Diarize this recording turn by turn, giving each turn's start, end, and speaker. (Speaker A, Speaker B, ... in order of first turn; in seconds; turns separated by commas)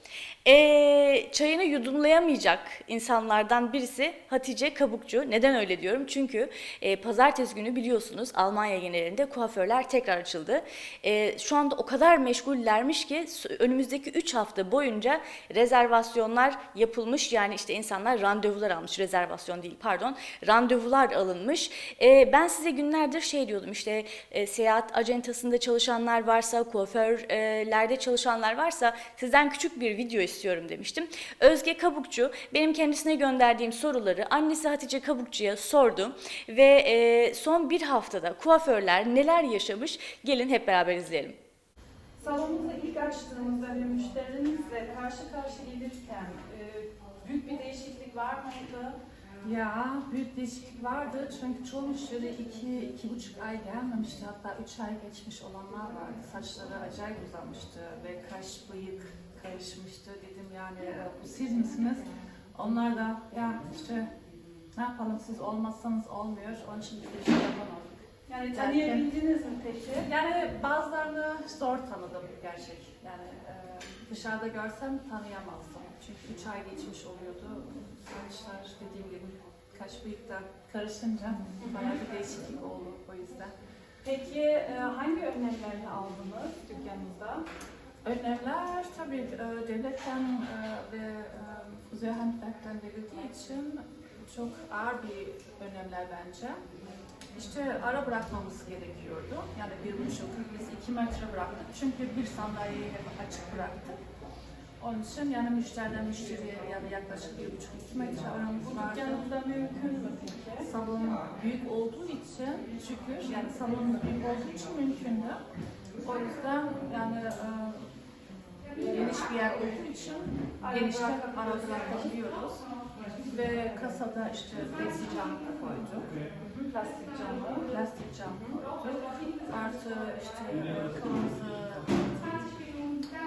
Speaker A: 0.5-41.4, Speaker B: 42.2-49.0, Speaker C: 49.4-64.1, Speaker C: 64.7-69.1, Speaker B: 68.3-70.1, Speaker C: 69.9-83.5, Speaker B: 81.6-81.9, Speaker B: 84.0-87.5, Speaker C: 88.0-96.6, Speaker C: 97.3-104.0, Speaker C: 104.8-109.3, Speaker B: 108.6-110.7, Speaker C: 110.6-115.4, Speaker C: 116.0-117.9, Speaker C: 118.7-122.6, Speaker B: 120.6-122.0, Speaker C: 123.3-126.2, Speaker B: 126.5-127.7, Speaker C: 127.6-132.6